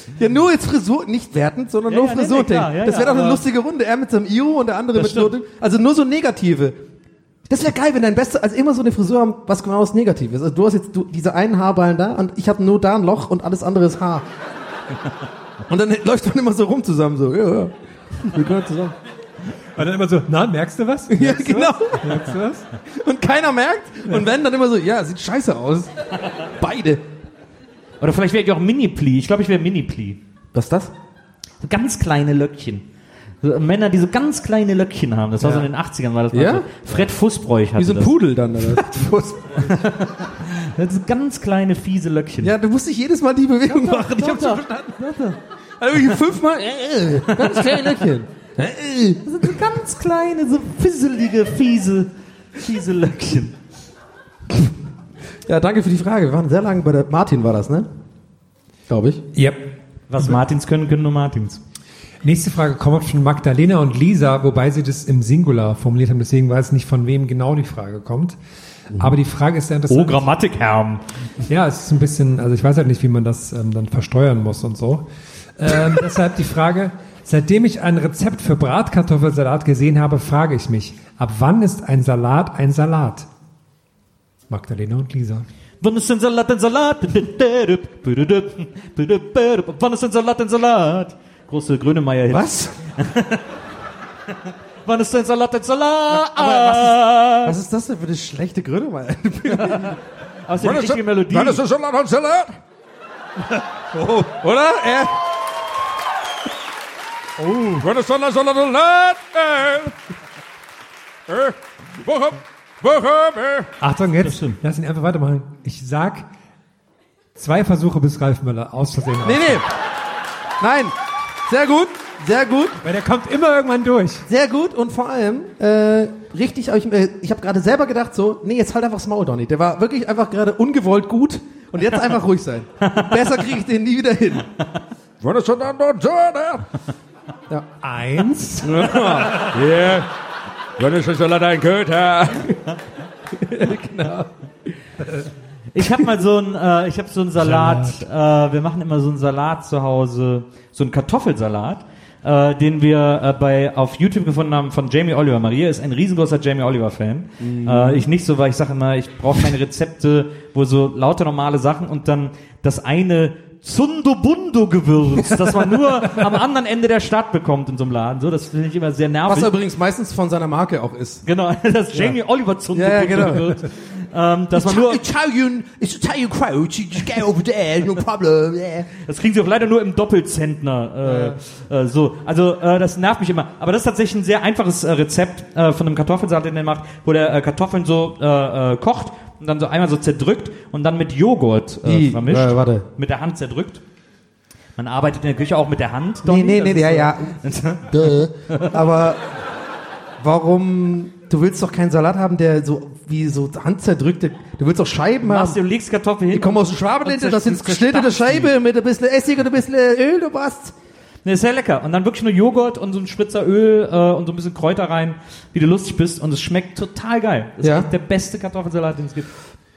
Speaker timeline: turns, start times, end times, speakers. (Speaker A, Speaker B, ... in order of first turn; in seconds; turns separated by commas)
Speaker A: 0.1-6.8, Speaker B: 1.9-3.4, Speaker B: 4.9-5.3, Speaker A: 7.5-14.2, Speaker A: 15.7-18.9, Speaker C: 19.8-22.6, Speaker A: 21.1-22.3, Speaker A: 22.9-25.9, Speaker A: 26.6-27.0, Speaker B: 28.0-30.2, Speaker A: 30.5-30.9, Speaker B: 31.6-32.9, Speaker B: 33.4-38.1, Speaker A: 35.4-35.7, Speaker A: 36.3-37.1, Speaker A: 37.8-39.8, Speaker B: 39.6-42.5, Speaker A: 42.4-45.1, Speaker B: 43.7-45.3, Speaker A: 45.8-49.3, Speaker B: 47.3-47.9, Speaker B: 49.2-53.5, Speaker A: 55.5-57.9, Speaker A: 58.9-59.2, Speaker C: 59.3-59.6, Speaker B: 60.1-61.6, Speaker C: 62.2-68.4, Speaker C: 68.9-70.3, Speaker B: 69.9-71.0, Speaker C: 71.5-83.3, Speaker C: 84.5-85.5, Speaker B: 85.8-93.4, Speaker A: 92.3-92.8, Speaker B: 94.8-97.5, Speaker A: 96.1-100.0, Speaker B: 99.7-99.9, Speaker B: 100.5-101.6, Speaker D: 100.6-102.5, Speaker A: 104.2-105.2, Speaker C: 107.4-107.9, Speaker D: 107.8-109.9, Speaker D: 111.3-113.7, Speaker C: 113.8-116.3, Speaker B: 114.2-114.6, Speaker C: 117.3-119.6, Speaker A: 119.2-119.7, Speaker A: 120.6-120.9, Speaker A: 121.5-122.8, Speaker C: 122.8-124.3, Speaker A: 124.3-134.5, Speaker D: 135.2-136.6, Speaker C: 137.8-139.5, Speaker A: 138.6-139.5, Speaker D: 139.4-140.1, Speaker D: 140.8-142.5, Speaker A: 143.3-144.3, Speaker B: 145.7-169.5, Speaker C: 147.4-148.0, Speaker A: 157.4-158.1, Speaker A: 169.3-171.2, Speaker B: 171.2-175.0, Speaker A: 172.7-173.6, Speaker A: 174.5-178.9, Speaker B: 179.0-193.8, Speaker A: 181.0-181.4, Speaker A: 191.8-192.8, Speaker B: 194.8-198.7, Speaker A: 196.2-197.3, Speaker A: 197.9-199.3, Speaker A: 200.2-205.6, Speaker B: 205.2-208.5, Speaker A: 206.3-210.7, Speaker B: 211.2-219.3, Speaker A: 217.6-217.9